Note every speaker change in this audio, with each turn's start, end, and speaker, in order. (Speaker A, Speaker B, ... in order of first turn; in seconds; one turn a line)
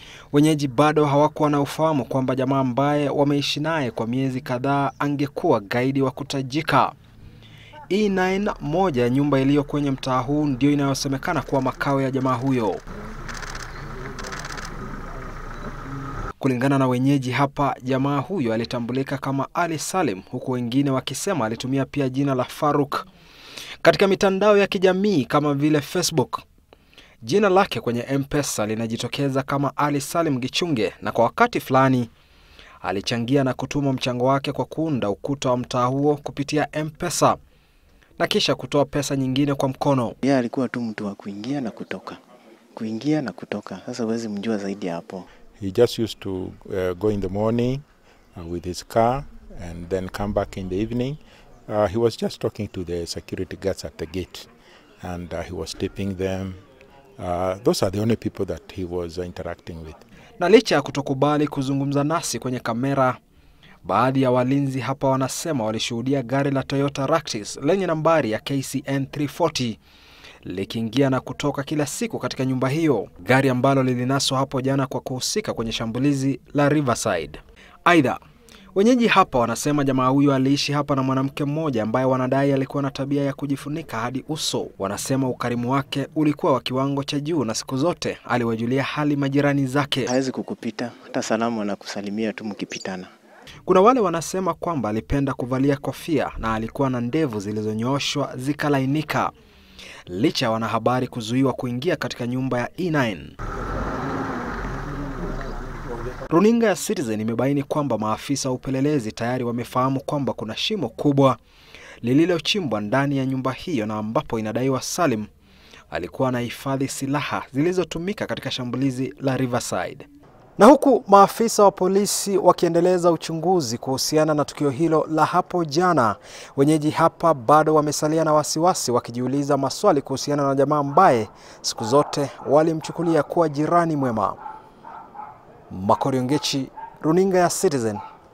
Speaker A: 0.3-6.9
Speaker A: 7.9-12.8
Speaker A: 16.4-23.1
Speaker A: 23.8-26.4
Speaker A: 27.2-32.1
Speaker A: 32.8-37.4
Speaker A: 38.2-40.1
Speaker B: 40.2-42.2
Speaker B: 42.8-45.1
Speaker C: 45.6-47.8
Speaker C: 48.4-54.5
Speaker C: 55.0-56.6
Speaker C: 57.2-60.0
Speaker A: 60.4-63.2
Speaker A: 63.8-69.8
Speaker A: 70.4-78.2
Speaker A: 78.7-90.1
Speaker B: 90.1-93.1
Speaker A: 93.7-99.3
Speaker A: 100.1-103.3
Speaker A: 106.3-111.4
Speaker A: 112.0-115.3
Speaker A: 115.9-120.1
Speaker A: 120.6-134.4
Speaker A: 135.7-138.0